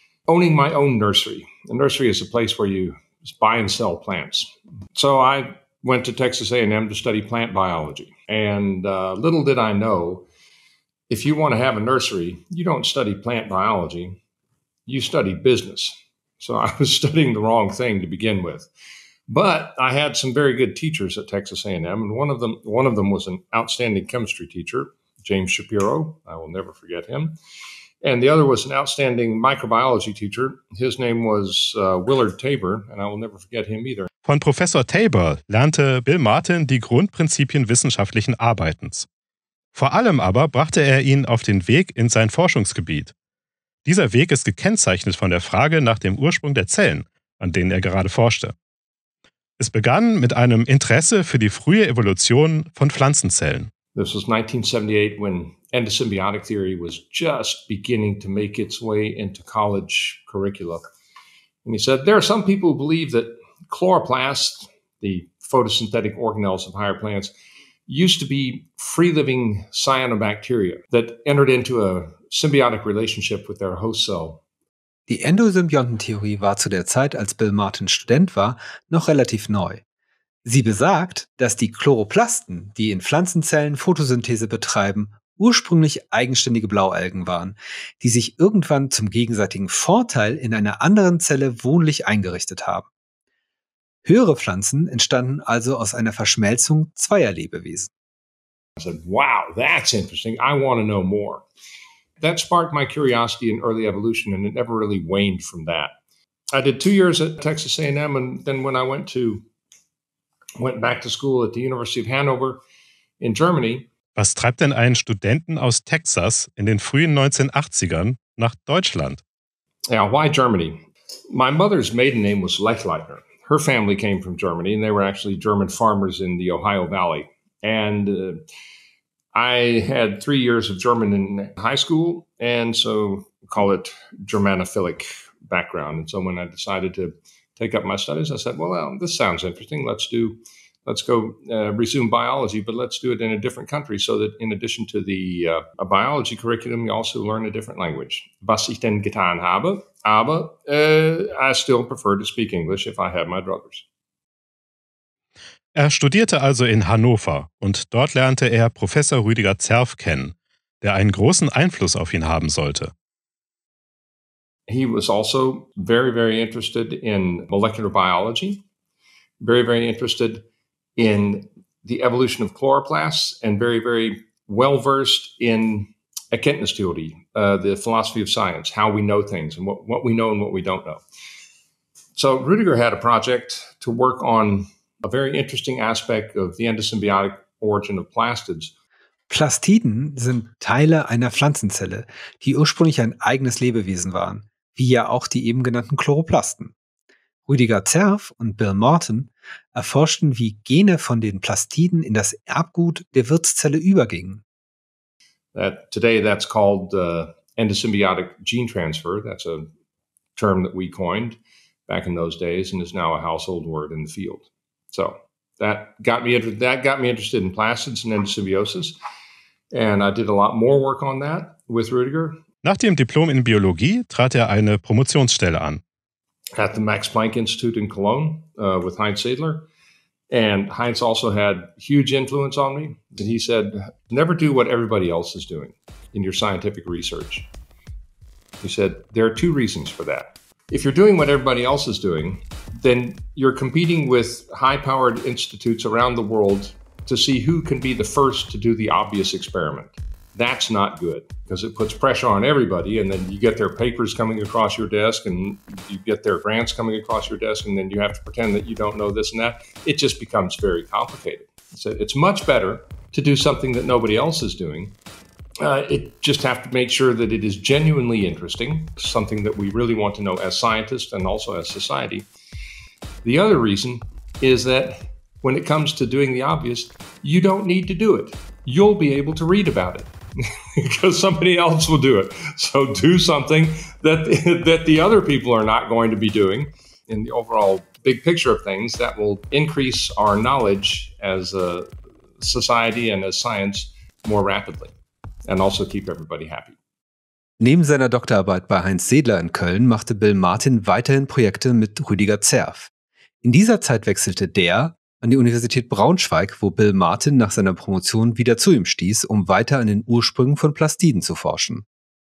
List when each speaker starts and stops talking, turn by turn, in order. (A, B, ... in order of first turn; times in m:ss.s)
0:00.3-0:10.3 A
0:11.1-0:14.2 A
0:14.9-0:18.7 A
0:19.3-0:27.4 A
0:28.0-0:34.1 A
0:34.2-0:39.1 B
0:39.8-0:43.1 B
0:43.8-0:48.6 B
0:49.6-0:53.7 B
0:54.0-1:00.9 A
1:01.6-1:07.3 A
1:07.9-1:14.4 A
1:15.1-1:19.8 C
1:20.4-1:32.9 C
1:34.0-1:37.9 C
1:38.8-1:41.5 A
1:42.2-1:45.9 A
1:46.5-1:49.4 A
1:50.6-1:52.6 A
1:53.2-1:53.9 A
1:54.2-1:59.2 B
1:59.9-2:08.4 A
2:09.3-2:33.8 A
2:35.8-2:42.9 B
2:44.7-2:48.6 A
2:49.4-2:50.5 A
2:51.0-3:01.0 A
3:02.2-3:08.7 A
3:09.3-3:16.8 C
3:17.5-3:24.4 C
3:25.5-3:29.7 A
3:30.4-3:39.0 A
3:39.7-3:42.4 A
3:42.6-3:45.8 B
3:46.6-3:49.7 A
3:50.3-3:57.5 A
3:58.6-4:25.0 A
4:25.6-4:32.3 A
4:33.2-4:40.1 A
4:40.8-4:51.9 A
4:52.4-4:54.9 A
4:55.5-4:56.8 A
4:57.6-5:02.9 C
5:03.4-5:11.9 C